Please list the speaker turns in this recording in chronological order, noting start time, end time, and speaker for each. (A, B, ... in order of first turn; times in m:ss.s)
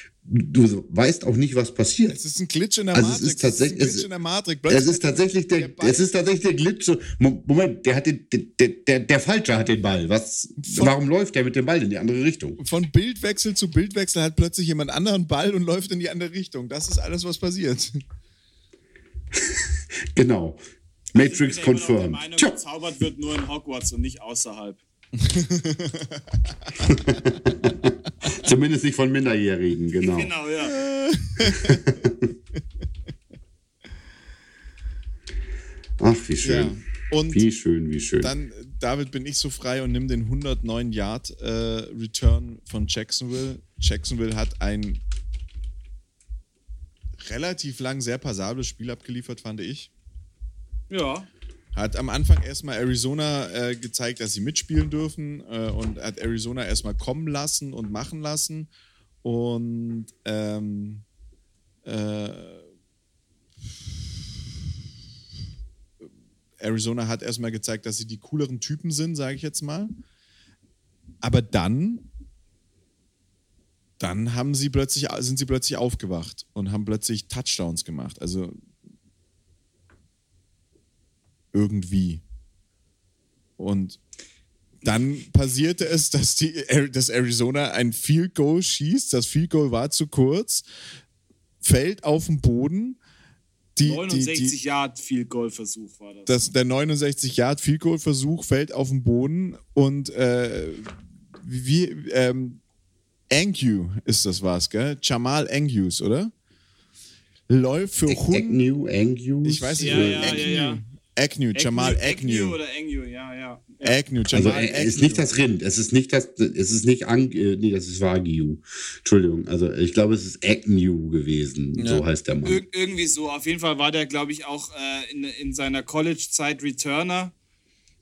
0:00.2-0:02.2 A
0:02.1-0:06.1 B
0:02.9-0:04.1 A
0:04.7-0:12.6 A
0:10.6-0:10.9 B
0:12.6-0:18.0 B
0:19.4-0:20.6 A
0:21.1-0:22.6 A
0:21.1-0:24.8 C
0:25.2-0:27.4 B
0:26.8-0:30.3 A
0:30.0-0:30.8 C
0:30.6-0:31.9 B
0:31.4-0:32.3 A
0:36.0-0:36.8 A
0:36.4-0:37.5 B
0:37.3-0:38.3 A
0:38.2-0:45.0 B
0:47.2-0:49.9 B
0:50.9-0:51.3 C
0:51.8-0:58.7 B
0:59.2-1:01.0 B
1:01.8-1:02.6 B
1:06.6-1:09.9 B
1:11.2-1:12.1 B
1:14.0-1:18.6 B
1:21.5-1:22.2 B
1:23.6-1:24.0 B
1:24.8-1:30.6 B
1:31.6-1:33.0 B
1:33.8-1:34.6 B
1:33.8-1:36.3 C
1:36.3-1:40.9 B
1:41.4-1:42.6 B
1:43.3-1:46.3 B
1:47.5-1:48.6 B
1:48.1-1:50.5 A
1:49.4-1:52.6 B
1:49.8-1:50.8 C
1:51.6-1:54.8 C
1:53.8-1:55.3 B
1:54.3-2:02.6 A
2:01.8-2:02.0 B
2:02.4-2:07.3 C